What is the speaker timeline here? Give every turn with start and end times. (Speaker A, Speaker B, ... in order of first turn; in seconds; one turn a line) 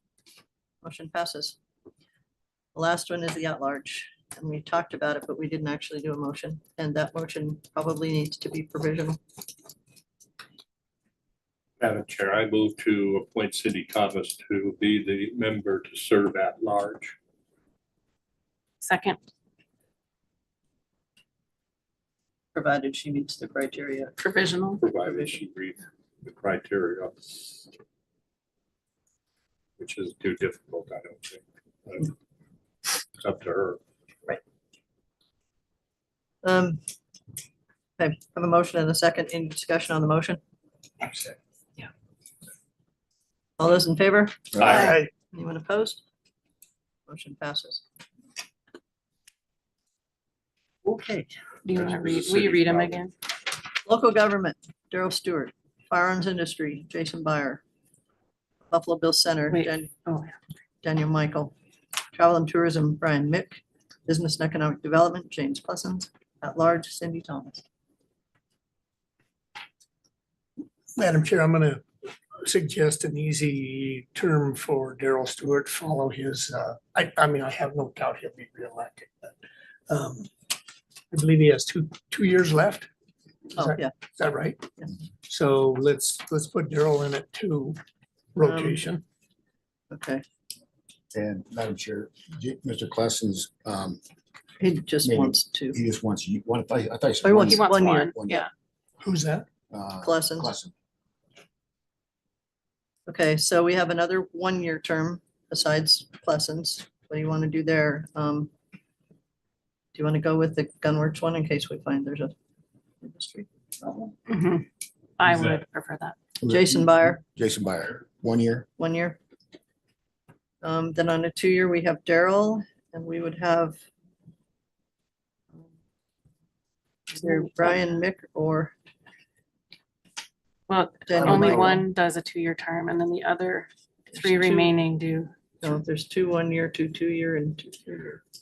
Speaker A: 0.8-1.6
Speaker A: 2.7-9.2
Speaker B: 11.8-17.1
Speaker C: 18.8-19.2
Speaker A: 22.5-24.2
Speaker C: 24.2-24.8
Speaker B: 24.8-27.7
Speaker A: 24.9-25.4
Speaker B: 29.8-32.1
Speaker B: 33.2-33.8
Speaker A: 36.4-36.8
Speaker A: 38.0-40.4
Speaker A: 43.6-46.0
Speaker D: 44.5-44.9
Speaker B: 44.6-45.0
Speaker E: 44.6-45.1
Speaker A: 47.1-47.8
Speaker C: 51.6-53.1
Speaker B: 51.7-53.0
Speaker A: 53.9-57.6
Speaker A: 58.7-59.9
Speaker C: 59.5-60.3
Speaker A: 60.8-61.5
Speaker A: 62.1-67.6
Speaker E: 71.0-71.8
Speaker E: 72.4-79.4
Speaker E: 79.9-80.3
Speaker E: 81.1-82.9
Speaker E: 83.5-84.7
Speaker A: 83.5-83.9
Speaker E: 85.3-87.8
Speaker E: 88.3-89.0
Speaker A: 88.4-88.8
Speaker A: 89.9-90.2
Speaker D: 91.1-94.0
Speaker A: 94.6-95.8
Speaker D: 95.0-98.4
Speaker A: 97.2-98.1
Speaker C: 97.5-98.4
Speaker E: 99.0-99.5
Speaker D: 99.7-100.7
Speaker A: 100.0-100.5
Speaker A: 103.1-108.5
Speaker A: 109.9-112.3
Speaker A: 113.0-114.1
Speaker C: 114.3-114.6
Speaker C: 115.2-116.1
Speaker D: 116.4-118.7
Speaker A: 116.5-117.2
Speaker A: 118.8-119.2
Speaker A: 120.6-123.8
Speaker A: 127.1-128.7
Speaker C: 130.7-135.3
Speaker A: 131.1-131.8
Speaker D: 131.2-131.7
Speaker A: 134.2-134.7
Speaker A: 135.6-138.2